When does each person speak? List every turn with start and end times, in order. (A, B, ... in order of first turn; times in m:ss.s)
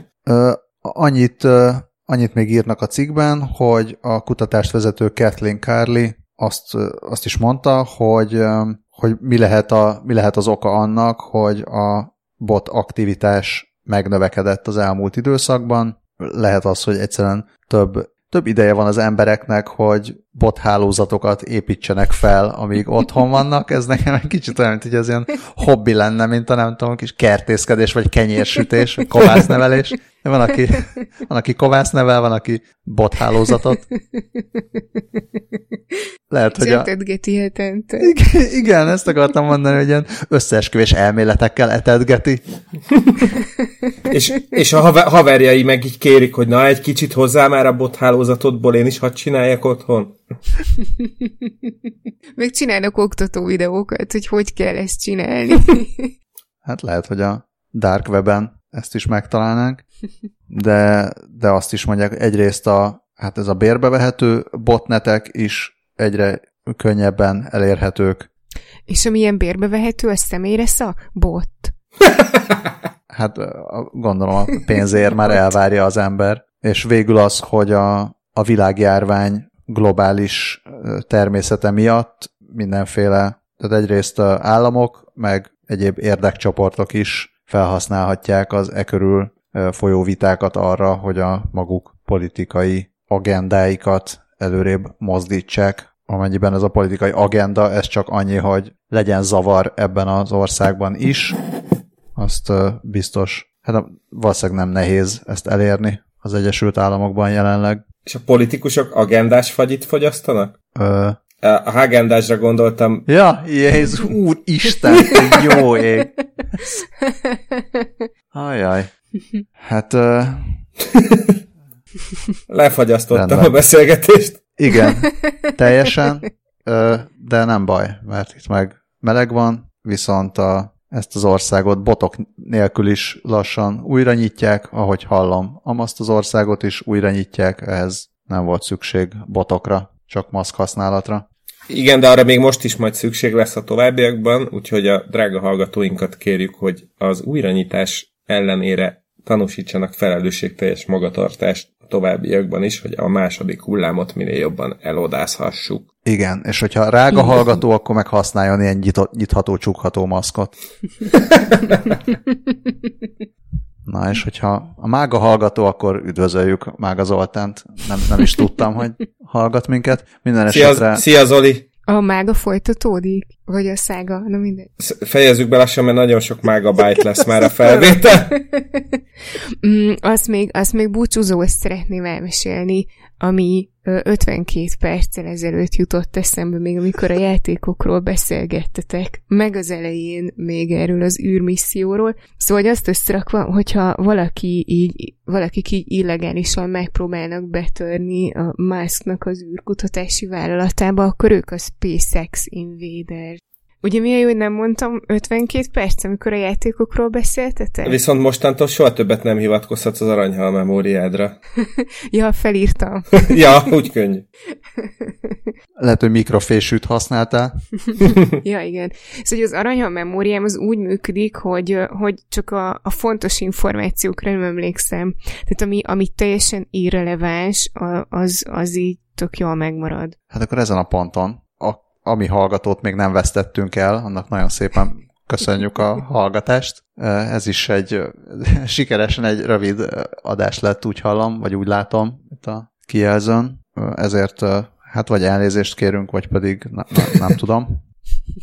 0:00.3-0:33.8 A
0:34.1-0:35.0 B
0:36.3-0:36.9 A
0:36.6-0:38.2 B
0:38.0-0:42.4 A
0:44.1-0:50.2 C
0:52.4-0:56.1 B
0:56.6-0:59.8 A
1:00.5-1:08.3 A
1:08.9-1:11.8 B
1:13.1-1:41.4 A
1:42.2-1:47.8 A
1:48.1-1:50.6 C
1:50.8-1:51.2 A
1:51.4-1:53.1 C
1:53.1-1:56.1 A
1:58.3-1:58.9 A
1:59.6-2:00.6 A
2:01.0-2:01.4 C
2:02.5-2:04.4 C
2:03.1-2:03.6 A
2:04.6-2:21.2 A
2:21.7-2:35.8 C
2:36.0-2:40.5 A
2:43.9-2:51.0 A
2:50.5-2:51.7 C
2:51.9-2:54.7 B
2:54.8-2:58.4 C
2:57.6-2:58.8 B
2:59.6-3:28.0 B
3:27.8-3:31.4 C
3:31.6-3:33.6 B
3:33.2-3:34.2 C
3:34.8-3:35.4 B
3:35.8-3:37.6 A
3:38.4-3:50.2 B
3:50.3-4:07.8 A